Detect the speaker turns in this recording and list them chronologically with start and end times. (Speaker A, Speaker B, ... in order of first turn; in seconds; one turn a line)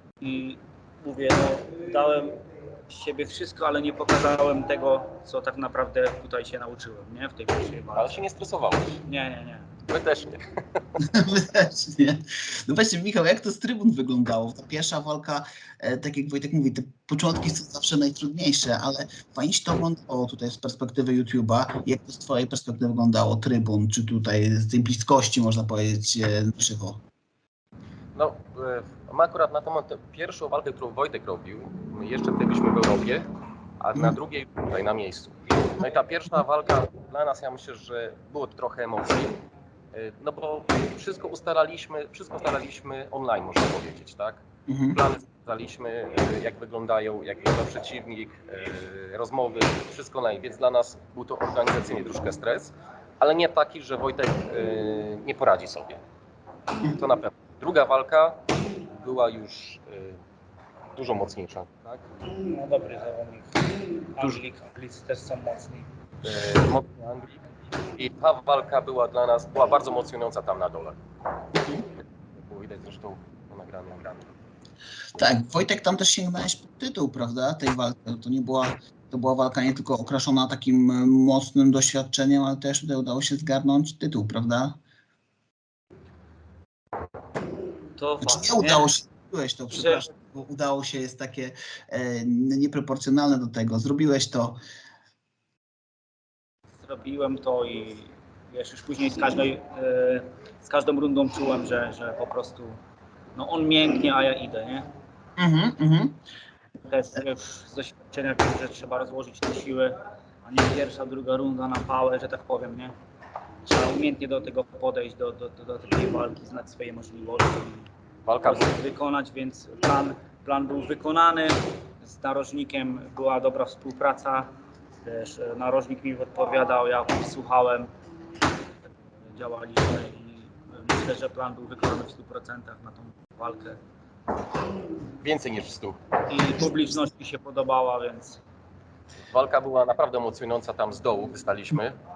Speaker A: 0.2-8.2
Speaker B: 8.0-9.0
Speaker A: 9.1-9.7
Speaker B: 9.9-11.0
Speaker C: 11.0-27.0
Speaker B: 28.1-33.3
Speaker B: 33.8-39.4
Speaker B: 39.9-56.0
Speaker C: 44.7-45.0
Speaker B: 56.9-60.2
Speaker B: 61.0-62.1
Speaker A: 62.4-63.6
Speaker A: 64.2-65.9
Speaker B: 66.2-71.0
Speaker C: 71.6-71.8
Speaker B: 72.0-74.3
Speaker C: 75.2-84.8
Speaker A: 88.0-88.9
Speaker C: 88.2-94.6
Speaker A: 89.7-90.1
Speaker A: 96.8-102.8
Speaker A: 103.4-104.9
Speaker C: 105.4-106.2
Speaker A: 106.8-112.9
Speaker A: 113.7-117.9
Speaker B: 118.3-118.8
Speaker A: 118.4-124.5
Speaker A: 125.0-127.9
Speaker A: 129.3-133.8
Speaker B: 135.2-136.0
Speaker A: 136.3-138.4
Speaker B: 139.3-142.0